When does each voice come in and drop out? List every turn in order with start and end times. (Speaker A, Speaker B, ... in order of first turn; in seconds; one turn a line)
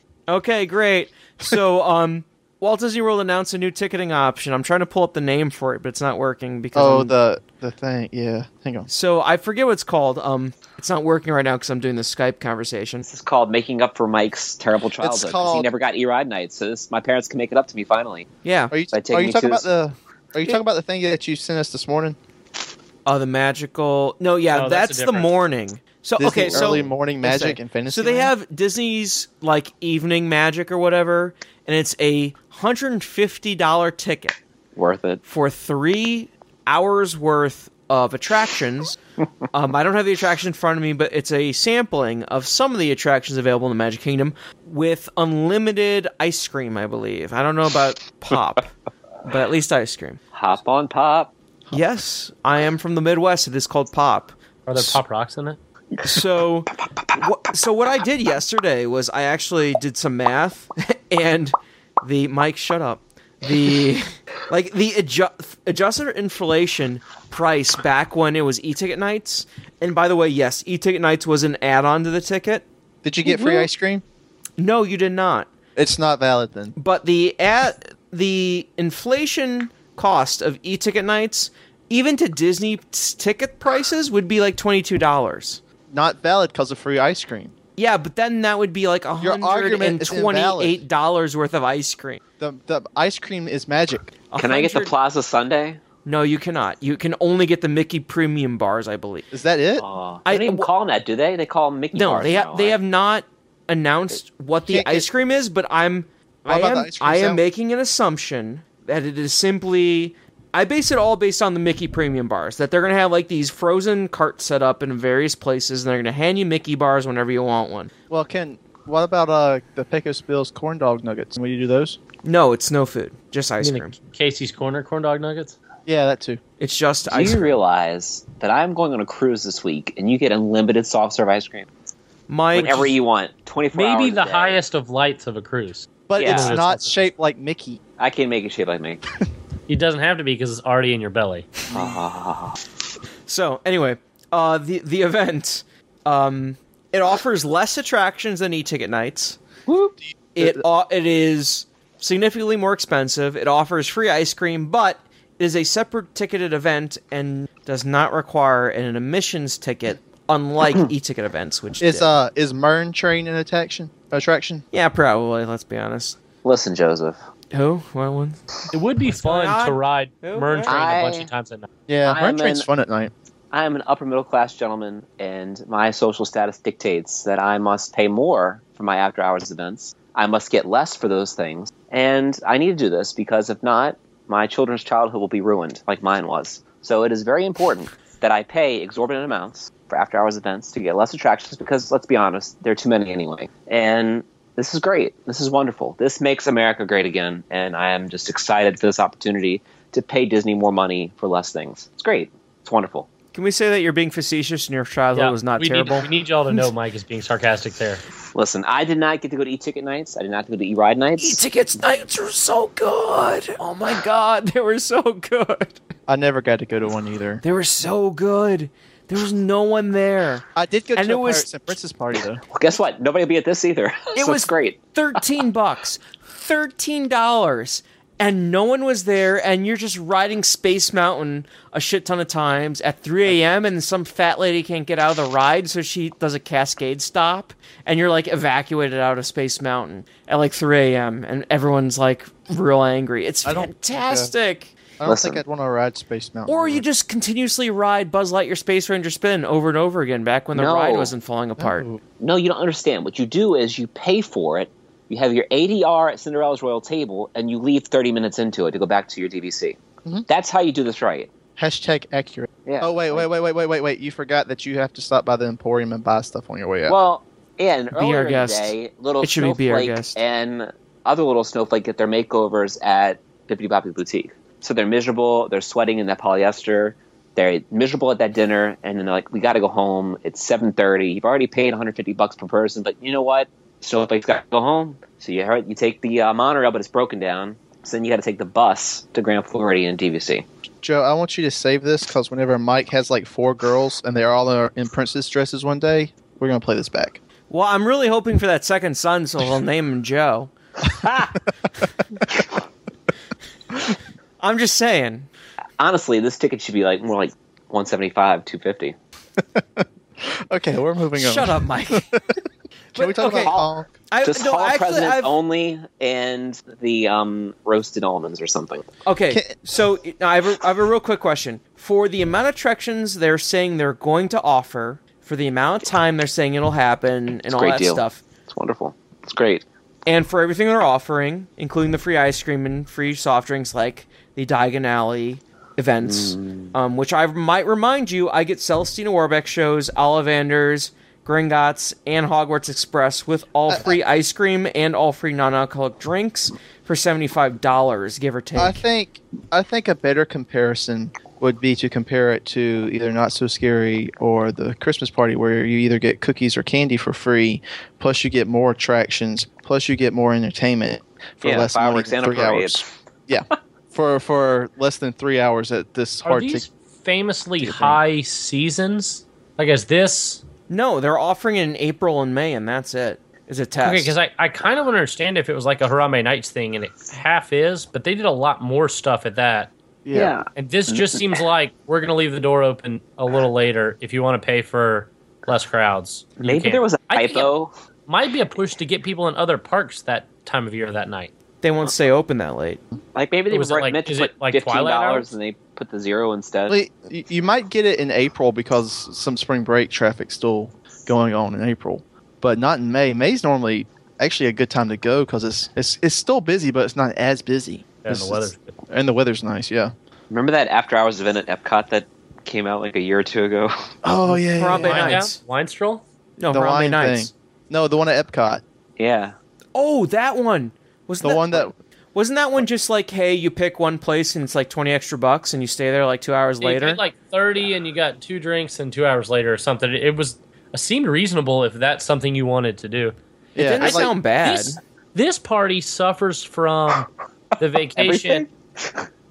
Speaker A: 0.3-7.1
Speaker B: 6.7-8.9
Speaker A: 8.9-13.1
Speaker C: 13.0-18.3
Speaker B: 15.0-15.7
Speaker A: 18.4-18.7
Speaker B: 18.7-22.2
Speaker C: 18.9-19.7
Speaker A: 23.1-34.4
Speaker D: 24.5-25.3
Speaker B: 26.2-28.3
Speaker C: 26.5-26.8
Speaker C: 34.8-35.2
Speaker A: 35.2-39.0
Speaker A: 39.5-50.2
Speaker C: 50.3-51.3
Speaker A: 51.7-55.0
Speaker D: 54.7-55.6
Speaker A: 56.0-72.7
Speaker B: 73.0-74.0
Speaker A: 73.2-73.7
Speaker A: 74.6-75.5
Speaker B: 75.8-76.7
Speaker A: 76.8-85.6
Speaker B: 85.9-87.5
Speaker A: 87.8-92.2
Speaker B: 89.2-90.8
Speaker B: 92.4-94.1
Speaker A: 94.3-94.9
Speaker C: 94.4-95.8
Speaker A: 96.0-99.3
Speaker B: 99.3-99.8
Speaker C: 99.8-102.8
Speaker A: 100.2-100.7
Speaker A: 101.9-117.9
Speaker B: 104.7-105.1
Speaker B: 106.5-107.4
Speaker B: 118.1-122.0
Speaker A: 122.2-123.9
Speaker D: 123.6-125.5
Speaker B: 125.8-126.4
Speaker A: 126.6-127.6
Speaker C: 127.1-131.7
Speaker A: 132.3-132.9
Speaker C: 132.5-134.6
Speaker D: 132.6-132.9
Speaker D: 133.7-137.1
Speaker B: 136.1-137.8
Speaker C: 136.2-136.5
Speaker C: 138.0-139.0
Speaker D: 139.7-141.5
Speaker C: 141.7-142.6
Speaker A: 143.2-149.4
Speaker B: 149.9-150.6
Speaker A: 150.3-162.1
Speaker B: 161.8-164.6
Speaker A: 164.7-166.2
Speaker C: 166.4-167.2
Speaker A: 167.5-168.4
Speaker D: 168.7-171.7
Speaker A: 169.1-170.7
Speaker C: 170.7-171.3
Speaker B: 171.9-173.1
Speaker C: 172.0-172.7
Speaker C: 173.5-203.1
Speaker A: 203.3-206.6
Speaker D: 205.1-208.0
Speaker C: 208.3-211.4
Speaker A: 211.2-215.8
Speaker B: 216.1-217.4
Speaker A: 217.4-221.7
Speaker B: 220.5-222.4
Speaker C: 222.5-225.2
Speaker A: 224.2-244.7
Speaker B: 243.4-244.3
Speaker B: 245.0-246.8
Speaker C: 245.0-245.4
Speaker A: 246.5-251.9
Speaker C: 250.5-251.1
Speaker B: 251.6-252.0
Speaker C: 252.2-261.3
Speaker B: 261.6-266.9
Speaker C: 262.6-263.3
Speaker C: 266.9-290.4
Speaker A: 267.9-270.2
Speaker B: 290.8-297.2
Speaker A: 297.5-300.5
Speaker C: 301.0-301.3
Speaker A: 304.4-305.3
Speaker C: 305.8-309.0
Speaker B: 309.4-312.2
Speaker A: 311.1-312.1
Speaker A: 312.9-315.3
Speaker B: 312.9-314.0
Speaker C: 313.3-313.6
Speaker C: 314.2-318.9
Speaker A: 319.0-328.2
Speaker B: 319.3-319.6
Speaker C: 327.5-329.6
Speaker A: 330.1-348.8
Speaker C: 336.0-336.7
Speaker B: 343.7-344.0
Speaker B: 348.6-366.6
Speaker C: 361.4-362.9
Speaker D: 366.2-370.4
Speaker B: 367.6-368.0
Speaker A: 370.7-374.1
Speaker D: 373.8-379.7
Speaker B: 380.0-380.3
Speaker C: 380.1-381.4
Speaker D: 380.5-387.5
Speaker C: 386.4-387.7
Speaker D: 388.1-391.3
Speaker A: 391.6-392.8
Speaker C: 393.1-396.8
Speaker D: 393.5-395.3
Speaker B: 396.7-409.9
Speaker D: 408.0-408.8
Speaker C: 410.3-413.7
Speaker B: 414.0-415.2
Speaker A: 414.3-415.4
Speaker D: 414.7-416.0
Speaker A: 416.4-417.3
Speaker B: 416.5-418.6
Speaker C: 419.0-419.3
Speaker A: 419.7-427.0
Speaker B: 421.2-421.7
Speaker D: 426.6-433.1
Speaker B: 433.5-434.1
Speaker A: 433.6-434.8
Speaker D: 433.8-438.4
Speaker C: 437.9-439.0